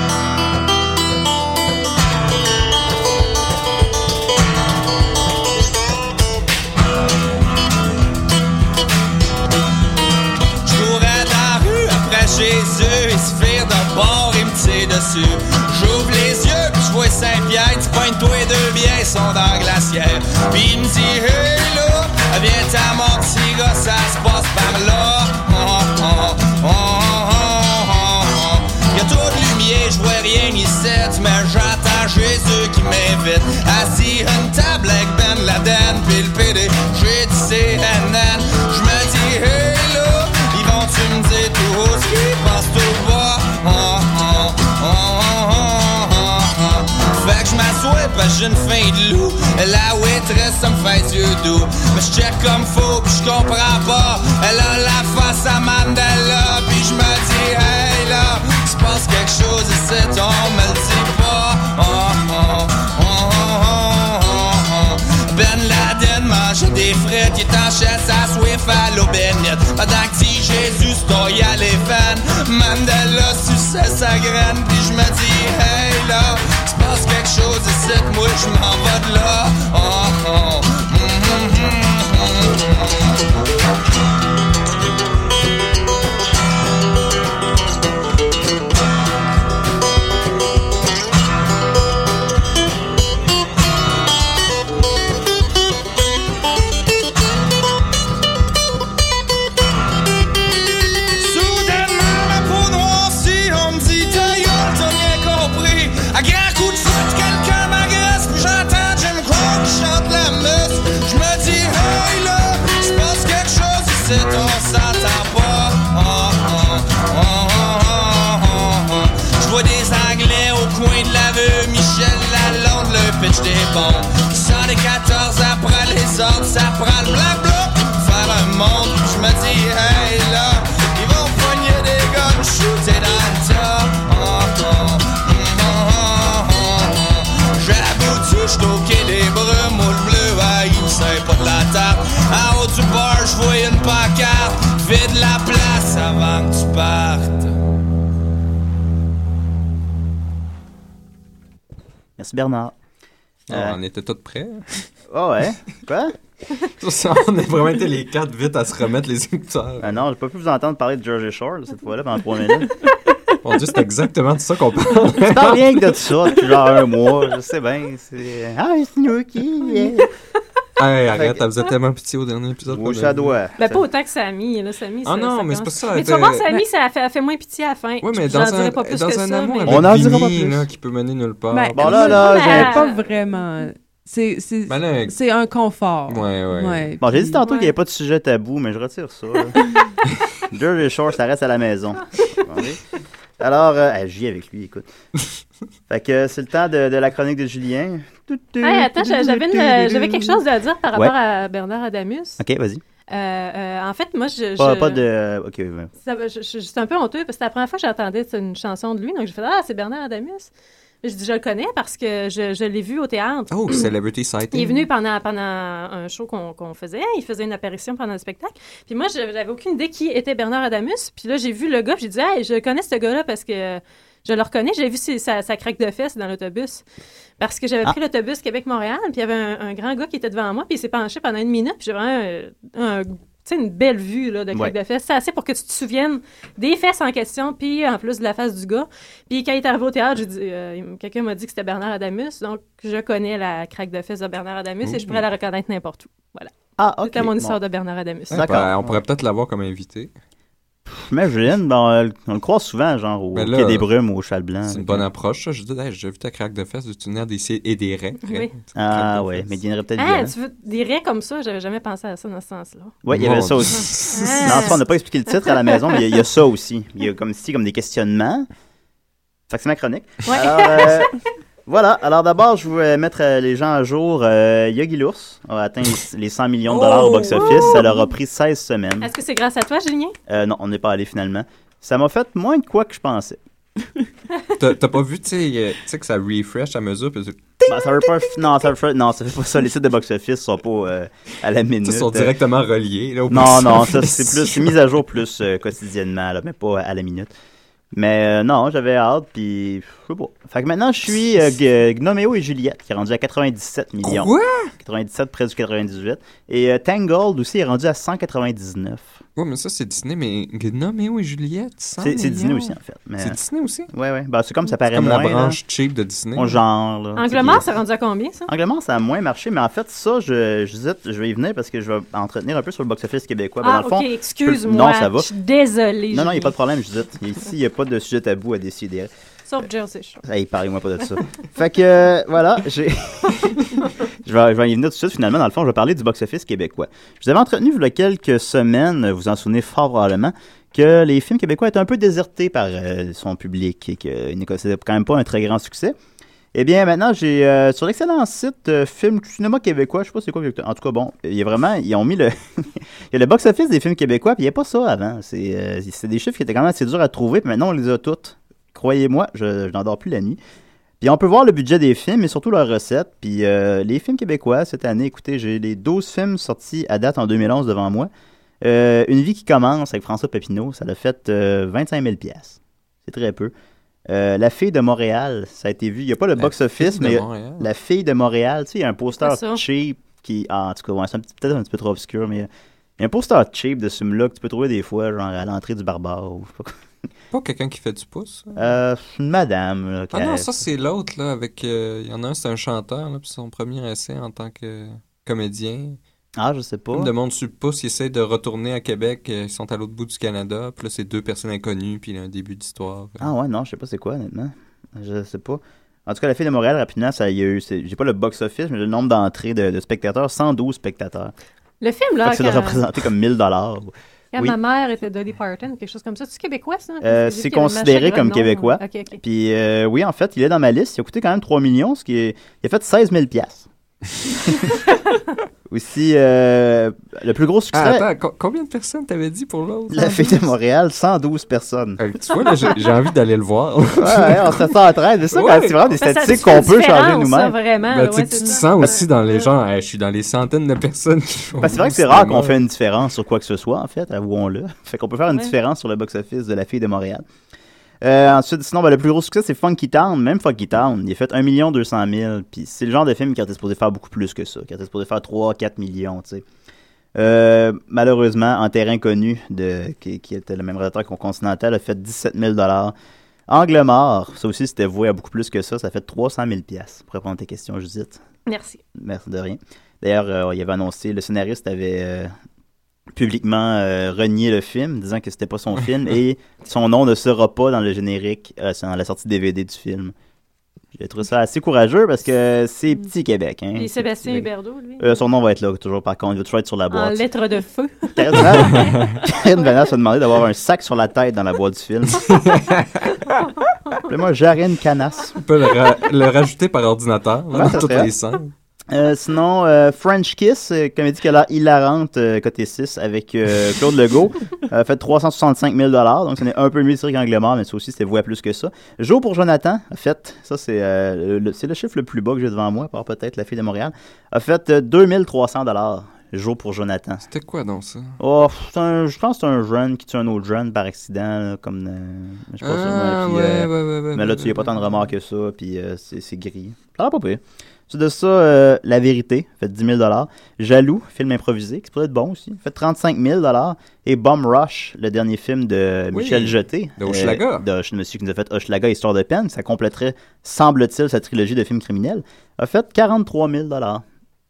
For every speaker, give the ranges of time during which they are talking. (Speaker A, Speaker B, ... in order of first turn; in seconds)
Speaker A: 10.6-83.0, 101.2-147.6
Speaker B: 152.2-152.7, 153.5-153.8, 155.1-156.1, 159.8-162.7, 165.2-170.1, 171.1-171.4, 172.7-173.8, 179.7-180.7, 181.7-182.8, 187.0-189.6, 190.5-192.8, 193.4-194.9, 195.9-200.4, 202.4-202.8, 204.6-205.9, 246.8-247.6, 248.3-249.0, 250.9-255.1, 258.8-260.3, 263.0-268.5, 269.5-271.1, 271.7-279.1, 280.3-283.4, 287.7-292.4, 293.3-297.3, 297.9-309.2, 312.0-313.4, 313.9-315.6, 316.4-317.7, 318.5-325.3, 326.1-329.1, 330.2-333.6, 334.2-346.0, 346.5-360.4, 361.0-368.1, 368.6-373.5, 374.1-386.8, 388.6-390.5, 396.4-397.1, 403.2-411.3, 412.2-414.6, 417.0-423.7, 425.7-428.1, 429.9-432.0, 434.0-437.6, 441.6-447.2, 448.0-456.4, 457.1-462.9, 463.5-468.2, 468.9-472.3, 473.1-480.1, 480.9-484.5, 485.0-487.2, 488.2-492.4, 494.1-495.4, 497.5-498.1, 498.9-517.2, 518.2-544.0
Speaker C: 153.5-154.9, 156.8-160.0, 163.4-165.8, 170.8-173.3, 175.1-176.4, 178.0-182.3, 184.7-185.2, 186.1-186.9, 213.5-214.9, 244.8-245.2, 248.3-250.1, 253.3-253.9, 254.7-259.5, 263.1-264.7, 276.7-277.8, 284.6-287.6, 291.9-294.7, 304.0-304.7, 309.4-312.7, 313.2-313.9, 314.9-316.6, 376.4-377.7, 387.3-388.7, 390.1-396.0, 396.9-403.3, 427.7-430.4, 432.0-434.6, 435.3-435.8, 437.9-442.6, 488.6-489.1, 492.2-493.2, 495.4-498.5, 517.3-518.2, 522.6-524.9, 536.1-537.6
Speaker D: 173.6-180.0, 182.1-183.0, 187.4-187.7, 198.6-202.4, 203.1-205.0, 206.0-210.5, 211.0-213.9, 214.5-226.8, 227.4-246.5, 247.1-248.5, 258.2-258.5, 260.0-263.0, 264.1-264.8, 265.4-266.0, 270.3-271.1, 279.0-280.1, 317.2-318.5, 323.6-326.6, 329.5-330.2, 379.2-379.6, 411.8-412.8, 414.3-419.2, 436.0-439.5, 468.5-468.8, 483.8-485.2, 486.9-489.3
Speaker E: 181.5-187.4